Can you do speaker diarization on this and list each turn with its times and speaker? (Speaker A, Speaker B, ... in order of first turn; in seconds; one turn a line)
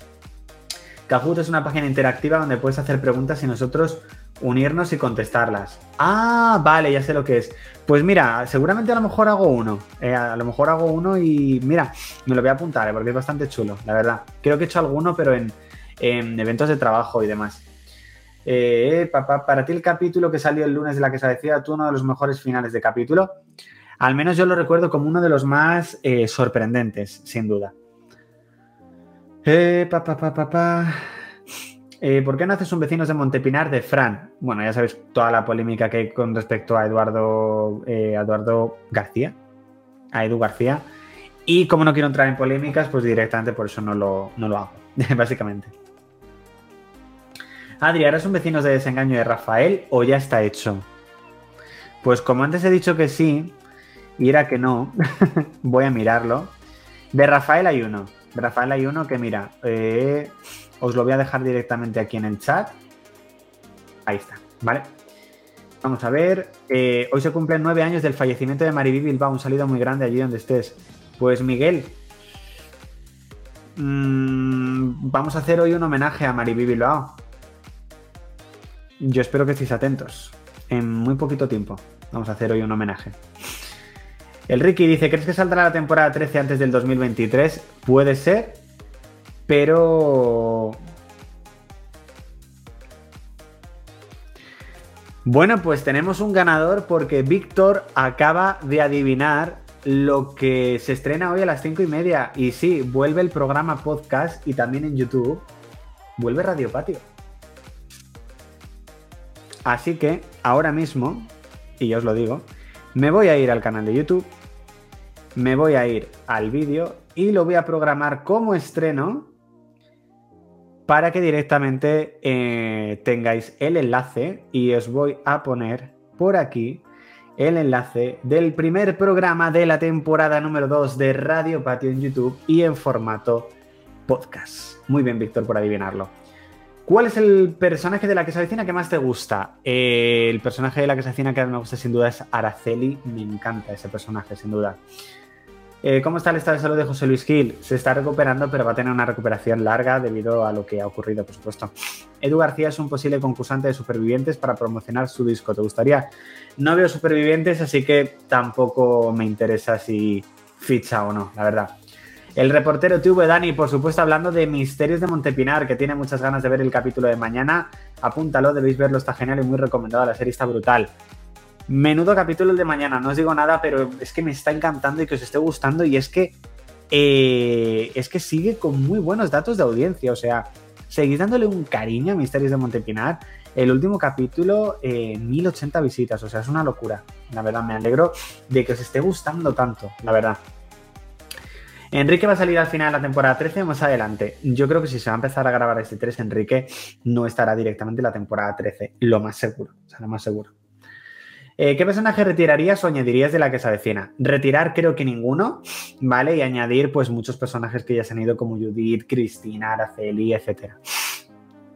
Speaker A: 1.1-17.7
Speaker A: 18.4-23.4
Speaker A: 24.0-27.7
Speaker A: 29.4-31.1
Speaker A: 32.0-39.4
Speaker A: 40.1-40.9
Speaker A: 41.5-45.7
Speaker A: 47.8-50.9
Speaker A: 52.0-53.6
Speaker A: 54.2-56.6
Speaker A: 57.1-62.8
Speaker A: 64.1-64.9
Speaker A: 65.8-72.0
Speaker A: 73.8-77.2
Speaker A: 79.0-83.2
Speaker A: 84.5-88.6
Speaker A: 89.5-90.8
Speaker A: 95.2-105.5
Speaker A: 106.2-107.1
Speaker A: 109.7-114.3
Speaker A: 115.3-119.3
Speaker A: 120.9-126.8
Speaker A: 127.4-133.6
Speaker A: 134.1-136.1
Speaker A: 136.9-144.8
Speaker A: 145.8-161.8
Speaker A: 162.4-170.9
Speaker A: 171.7-176.4
Speaker A: 176.9-190.4
Speaker A: 191.9-200.5
Speaker A: 201.6-210.8